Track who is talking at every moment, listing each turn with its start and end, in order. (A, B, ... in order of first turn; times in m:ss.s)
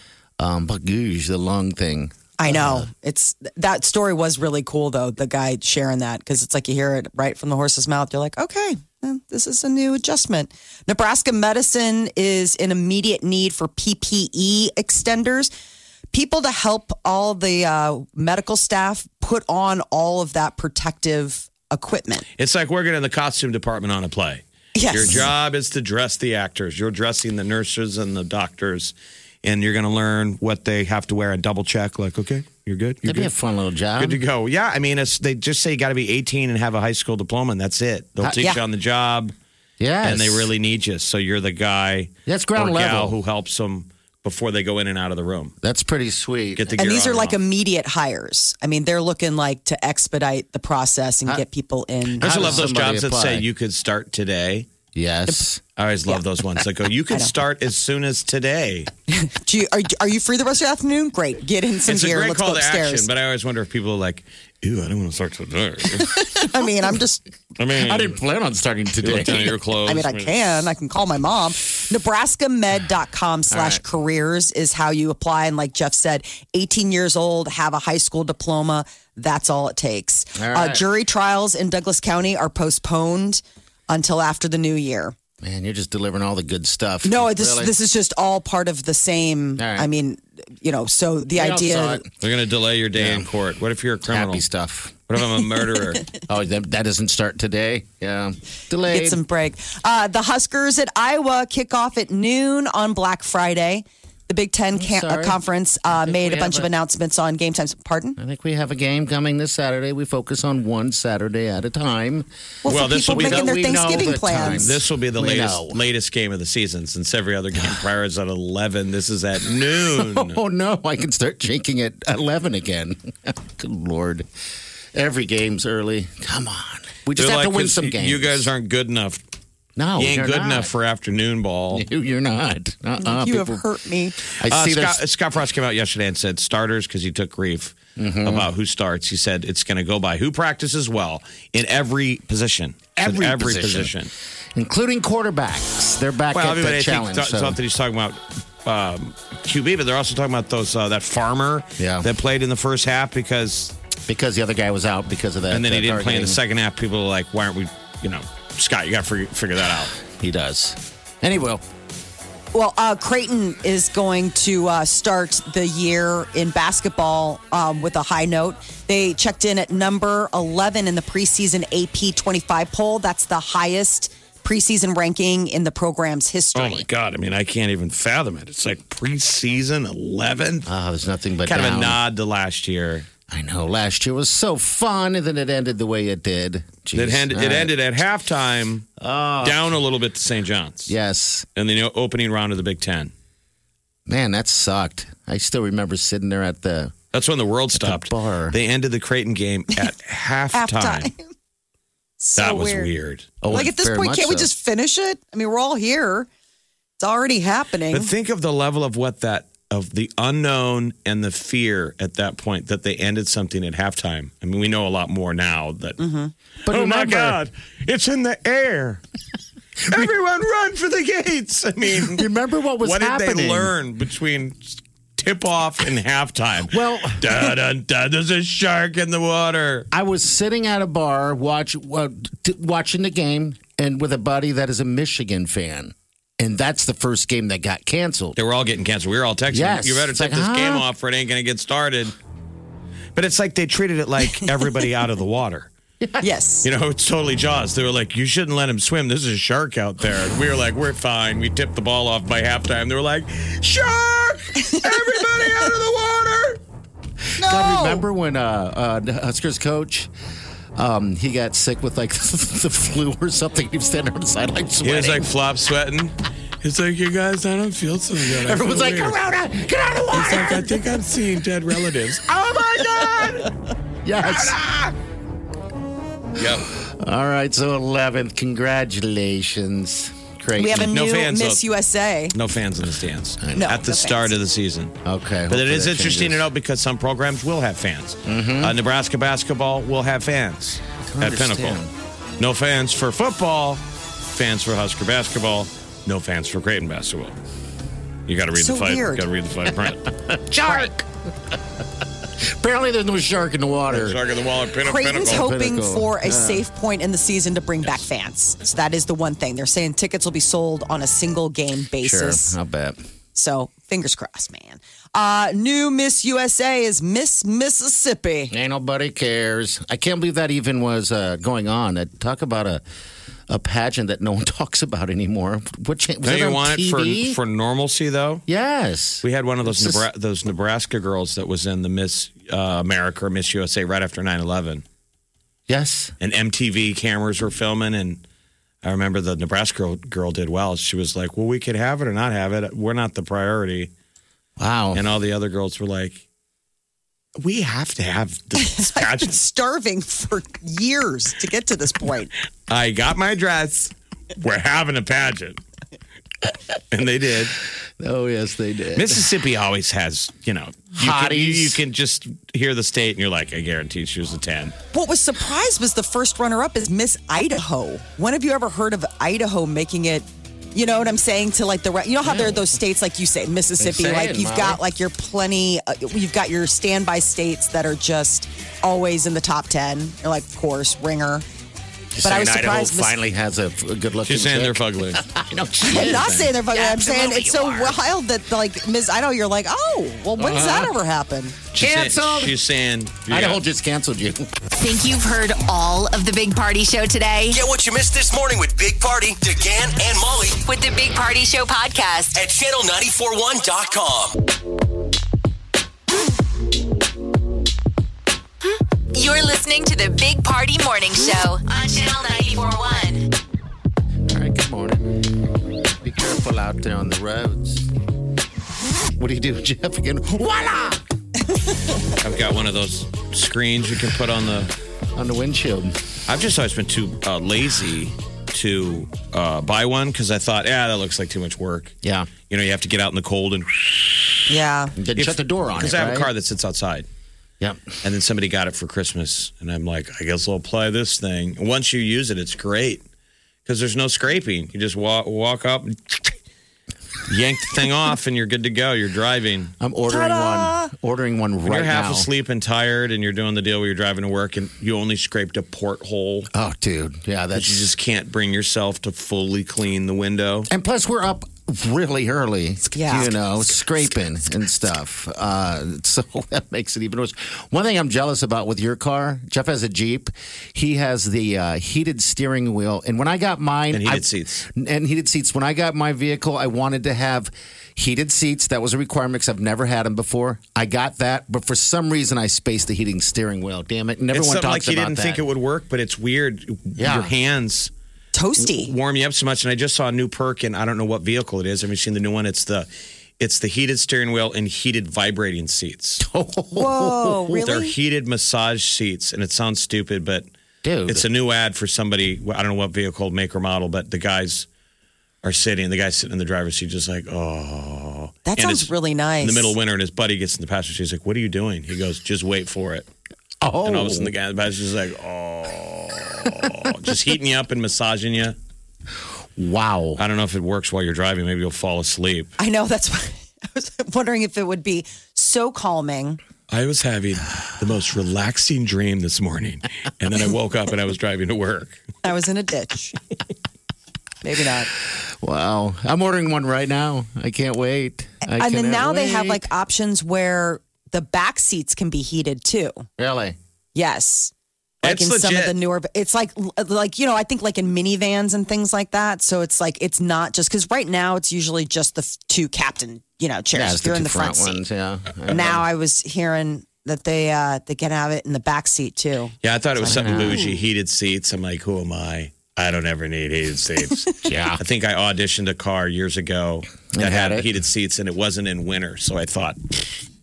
0:00.4-0:02.9 A
0:02.4-0:15.5 B
0:16.1-0:22.2 B
0:22.4-0:33.3 C
0:24.8-0:25.3 B
0:33.0-0:34.2 A
0:34.0-0:39.3 C
0:38.2-0:38.5 A
0:39.8-0:40.5 A
0:40.0-0:45.5 C
0:42.3-0:43.2 A
0:45.6-0:46.8 A
0:46.6-0:47.4 C
0:46.8-0:52.6 B
0:52.2-0:53.4 A
0:52.2-0:54.7 C
0:54.9-0:55.6 A
0:55.8-0:58.9 C
0:59.1-1:03.1 B
1:01.8-1:06.3 C
1:06.0-1:07.2 B
1:07.6-1:08.2 C
1:07.7-1:09.6 A
1:09.0-1:10.3 C
1:09.9-1:25.2 B
1:13.5-1:13.8 A
1:20.4-1:20.8 A
1:25.4-1:27.7 A
1:27.0-1:32.0 B
1:29.6-1:29.9 A
1:31.4-1:32.1 A
1:32.2-1:34.4 C
1:33.0-1:33.3 A
1:34.1-1:35.0 A
1:35.1-1:36.1 C
1:36.3-1:39.2 A
1:38.9-1:48.2 B
1:44.7-1:45.4 A
1:45.9-1:46.7 A
1:48.2-1:52.3 A
1:52.6-1:54.7 B
1:52.7-2:00.4 C
1:52.9-1:55.8 A
1:59.7-2:04.3 A
2:04.9-2:08.5 A
2:07.2-2:09.2 C
2:09.8-2:10.7 A
2:10.0-2:11.8 C
2:11.7-2:13.6 A
2:13.0-2:14.2 B
2:14.4-2:15.0 A
2:14.5-2:24.1 C
2:18.0-2:18.5 A
2:23.0-2:23.9 A
2:24.6-2:27.6 A
2:26.3-2:33.7 C
2:31.8-2:32.1 A
2:34.1-2:36.4 A
2:35.5-2:40.0 C
2:40.0-2:41.6 A
2:42.5-2:56.9 B
2:56.6-3:00.7 C
3:00.6-3:02.0 A
3:01.5-3:03.1 C
3:03.3-3:07.7 A
3:06.9-3:08.9 C
3:09.0-3:09.8 A
3:09.4-3:10.9 C
3:10.9-3:11.4 A
3:11.6-3:13.1 C
3:14.1-3:17.0 A
3:17.1-3:21.1 C
3:17.8-3:18.6 A
3:20.5-3:21.3 B
3:22.2-3:22.9 B
3:22.4-3:23.5 C
3:23.4-3:24.5 A
3:23.5-3:26.3 B
3:27.0-3:28.1 B
3:27.9-3:36.0 C
3:36.0-3:36.3 B
3:36.7-3:37.4 A
3:36.7-3:39.0 C
3:39.9-3:42.3 C
3:42.0-3:43.7 A
3:42.8-3:49.9 C
3:46.7-3:47.5 A
3:49.9-3:58.4 A
3:58.4-4:02.2 C
3:59.5-4:00.9 A
4:03.2-4:05.7 C
4:06.2-4:06.7 B
4:06.6-4:16.6 C
4:14.6-4:14.9 B
4:17.4-4:20.1 A
4:17.4-4:18.0 B
4:20.8-4:25.3 A
4:24.8-4:29.2 C
4:28.3-4:30.8 A
4:30.1-4:33.5 C
4:32.3-4:33.4 A
4:34.0-4:34.6 A
4:34.2-4:34.9 C
4:36.4-4:36.7 C
4:36.8-4:40.9 A
4:40.6-4:42.4 B
4:40.9-4:41.6 C
4:42.3-4:45.0 C
4:43.4-4:43.8 A
4:43.6-4:44.3 B
4:45.0-4:46.4 A
4:45.5-4:51.8 C
4:48.3-4:48.8 A
4:51.1-4:51.9 A
4:52.4-4:57.4 C
4:58.3-5:00.1 C
4:58.6-4:59.2 B
5:00.1-5:01.5 A
5:02.4-5:04.2 A
5:03.9-5:05.5 C
5:04.8-5:12.6 B
5:05.2-5:06.6 A
5:12.0-5:13.0 A
5:13.4-5:18.5 B
5:18.5-5:22.8 A
5:23.5-5:27.4 A
5:26.2-5:28.4 C
5:28.5-5:30.0 A
5:29.2-5:34.8 C
5:35.7-5:36.1 A
5:36.2-5:38.2 C
5:38.8-5:43.9 C
5:44.6-5:45.0 A
5:44.9-5:46.2 C
5:47.4-5:49.4 C
5:48.6-5:52.3 B
5:52.7-5:55.6 C
5:56.9-5:57.6 C
5:58.0-5:59.2 A
5:58.9-6:04.8 C
6:01.0-6:01.8 A
6:04.9-6:21.4 B
6:12.2-6:12.8 A
6:13.8-6:14.8 A
6:22.1-6:28.0 A
6:22.2-6:23.2 B
6:24.2-6:25.2 C
6:25.8-6:31.6 B
6:25.9-6:26.5 C
6:30.4-6:30.9 A
6:31.7-6:33.6 C
6:31.8-6:32.6 A
6:33.3-6:34.5 A
6:34.8-6:37.6 D
6:37.5-6:40.6 E
6:40.7-6:42.4 D
6:42.4-6:44.4 E
6:49.1-6:53.3 D
6:54.3-6:55.2 A
6:56.0-6:57.9 A
6:59.2-7:01.0 A
7:02.2-7:04.7 C
7:05.2-7:05.9 A
7:06.3-7:12.0 C
7:12.0-7:12.3 A
7:12.5-7:14.4 C
7:14.5-7:14.9 B
7:15.0-7:16.3 A
7:15.2-7:17.1 C
7:17.6-7:17.9 A
7:18.0-7:23.0 C
7:23.7-7:26.3 C
7:27.3-7:29.7 C
7:29.8-7:32.3 A
7:30.1-7:30.9 B
7:31.6-7:36.5 C
7:36.5-7:37.9 A
7:37.6-7:40.7 C
7:40.7-8:05.4 A
7:42.9-7:43.3 B
7:53.9-7:54.6 C
8:04.3-8:07.9 C
8:07.0-8:07.3 A
8:08.3-8:08.9 B
8:08.6-8:12.9 C
8:13.4-8:16.2 C
8:16.2-8:17.6 A
8:16.7-8:17.9 B
8:17.6-8:20.5 C
8:20.8-8:21.3 A
8:21.1-8:24.7 C
8:25.4-8:33.1 C
8:28.5-8:29.7 B
8:33.6-8:34.3 A
8:33.8-8:38.6 C
8:39.6-8:40.2 A
8:40.2-8:42.5 C
8:42.6-8:46.4 B
8:46.7-8:52.0 C
8:52.2-8:53.2 B
8:54.4-8:54.9 B
8:55.4-8:59.7 A
8:58.5-9:03.1 B
9:03.2-9:03.6 A
9:04.0-9:04.5 B
9:05.0-9:05.8 C
9:05.0-9:14.8 B
9:13.7-9:15.8 A
9:15.5-9:19.5 B
9:19.6-9:30.1 C
9:20.0-9:20.6 A
9:20.1-9:20.6 B
9:24.4-9:24.8 A
9:27.1-9:27.7 A